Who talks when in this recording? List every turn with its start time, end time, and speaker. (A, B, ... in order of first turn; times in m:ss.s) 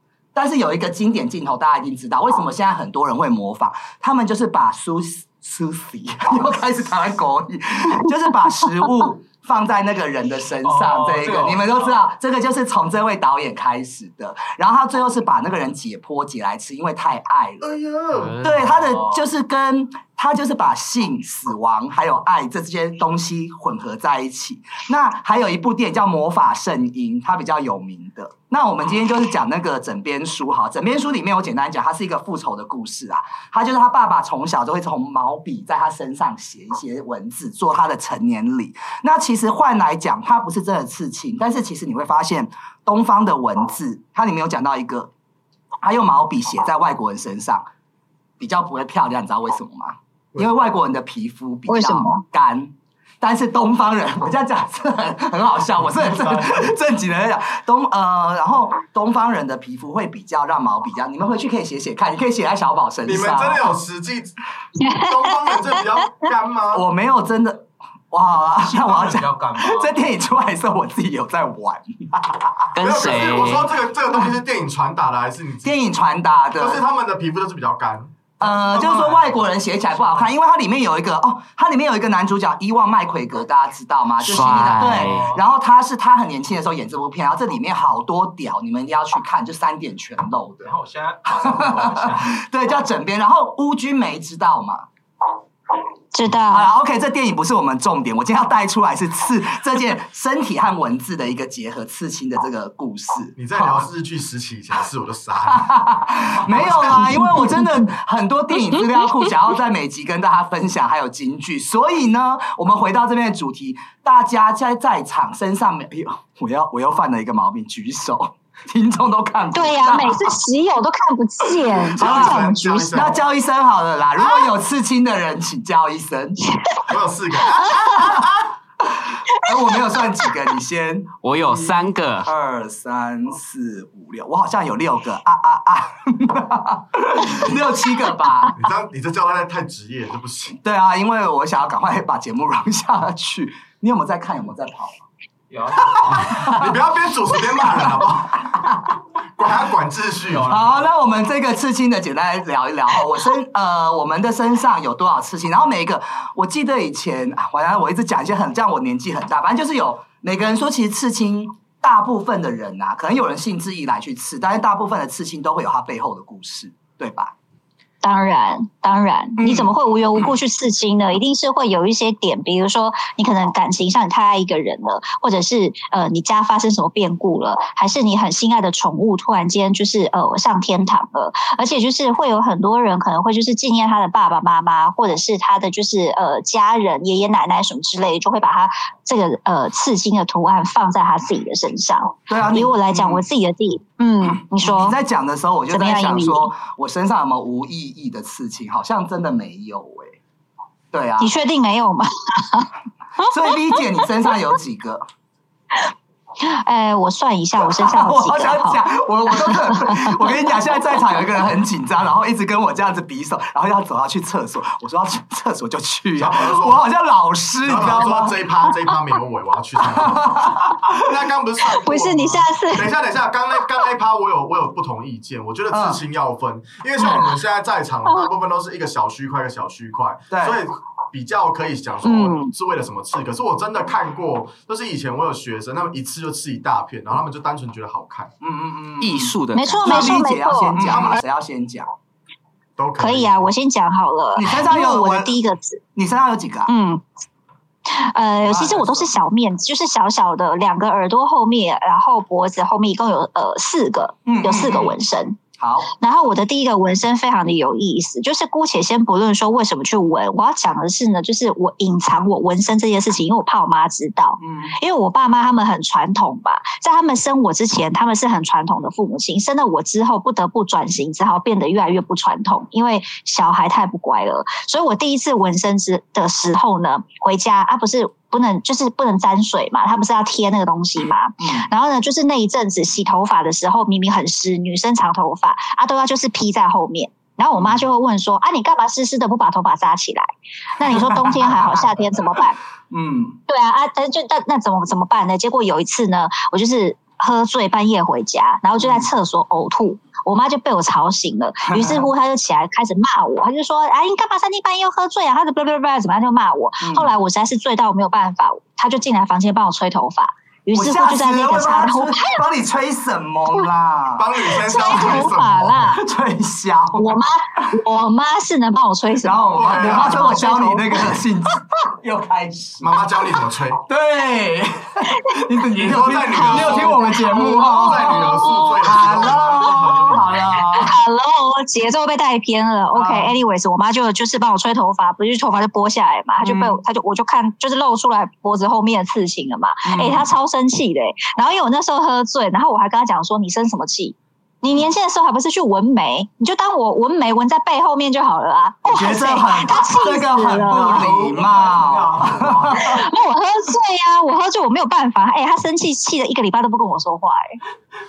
0:00.3-0:17.6 A
0:10.6-0:12.0 B
0:17.6-0:18.4 C
0:18.1-0:18.7 D
0:18.4-0:45.1 A
0:18.6-0:19.3 B
0:45.8-0:47.7 A
0:48.4-1:03.7 A
0:51.7-0:52.2 E
1:03.1-1:04.3 C
1:04.8-1:06.0 E
1:04.8-1:06.8 C
1:06.7-1:12.7 A
1:08.6-1:09.9 B
1:12.8-1:14.2 D
1:12.8-1:15.7 C
1:15.6-1:16.8 A
1:16.6-1:18.1 C
1:18.4-1:30.7 A
1:18.4-1:19.5 B
1:20.0-1:20.3 B
1:24.2-1:25.3 D
1:24.7-1:25.4 B
1:30.6-1:32.4 B
1:31.4-1:34.9 A
1:36.1-1:36.7 E
1:36.4-1:43.9 A
1:43.4-1:45.6 C
1:45.4-2:00.4 A
1:46.5-1:47.0 B
1:46.6-1:46.9 C
1:59.5-2:03.2 E
2:01.9-2:03.2 C
2:01.9-2:06.4 A
2:06.9-2:08.0 C
2:07.7-2:08.2 A
2:09.4-2:18.5 A
2:11.2-2:12.3 D
2:18.6-2:20.6 C
2:20.6-2:25.0 A
2:25.5-2:26.4 B
2:26.1-2:28.2 C
2:26.2-2:26.8 A
2:27.3-2:28.9 A
2:29.4-2:30.4 C
2:30.3-2:30.9 B
2:30.4-2:47.3 A
2:48.0-3:15.0 E
2:49.4-2:50.3 A
3:12.3-3:13.2 A
3:14.6-3:20.2 A
3:15.7-3:16.5 E
3:20.9-3:21.3 A
3:21.2-3:22.7 E
3:23.2-3:25.0 A
3:26.4-3:28.8 E
3:27.6-3:38.4 A
3:29.4-3:30.2 E
3:36.2-3:36.8 C
3:37.6-3:40.3 C
3:39.9-3:40.7 A
3:40.9-3:58.3 C
3:41.7-3:42.9 E
3:45.7-3:46.0 A
3:47.0-3:47.3 E
3:48.1-3:48.3 E
3:50.3-3:50.6 A
3:52.0-3:52.5 E
3:58.4-4:01.9 A
3:59.0-4:00.2 D
3:59.5-4:01.0 E
4:00.9-4:01.2 C
4:02.8-4:03.5 C
4:03.0-4:05.8 E
4:04.4-4:05.4 A
4:05.9-4:06.7 A
4:06.7-4:07.0 E
4:07.9-4:15.4 E
4:08.4-4:09.2 A
4:14.2-4:15.0 A
4:15.6-4:15.9 A
4:16.0-4:52.6 E
4:24.4-4:24.8 A
4:41.4-4:41.7 A
4:47.5-4:47.8 A
4:50.9-4:51.8 A
4:52.9-4:53.4 A
4:53.5-5:12.4 E
4:58.8-4:59.1 A
5:01.7-5:02.1 A
5:06.8-5:07.1 A
5:10.7-5:14.3 A
5:14.2-5:15.9 C
5:14.4-5:16.0 E
5:14.8-5:15.3 A
5:15.9-5:17.2 A
5:17.0-5:21.2 E
5:19.2-5:23.3 A
5:19.5-5:20.2 C
5:22.8-5:23.8 C
5:23.9-5:30.9 A
5:25.8-5:30.6 C
5:26.4-5:29.1 E
5:30.0-5:51.1 E
5:32.9-5:33.3 A
5:36.4-5:36.8 A
5:39.8-5:40.3 A
5:48.9-5:53.0 A
5:50.7-5:52.9 B
5:52.7-5:57.6 E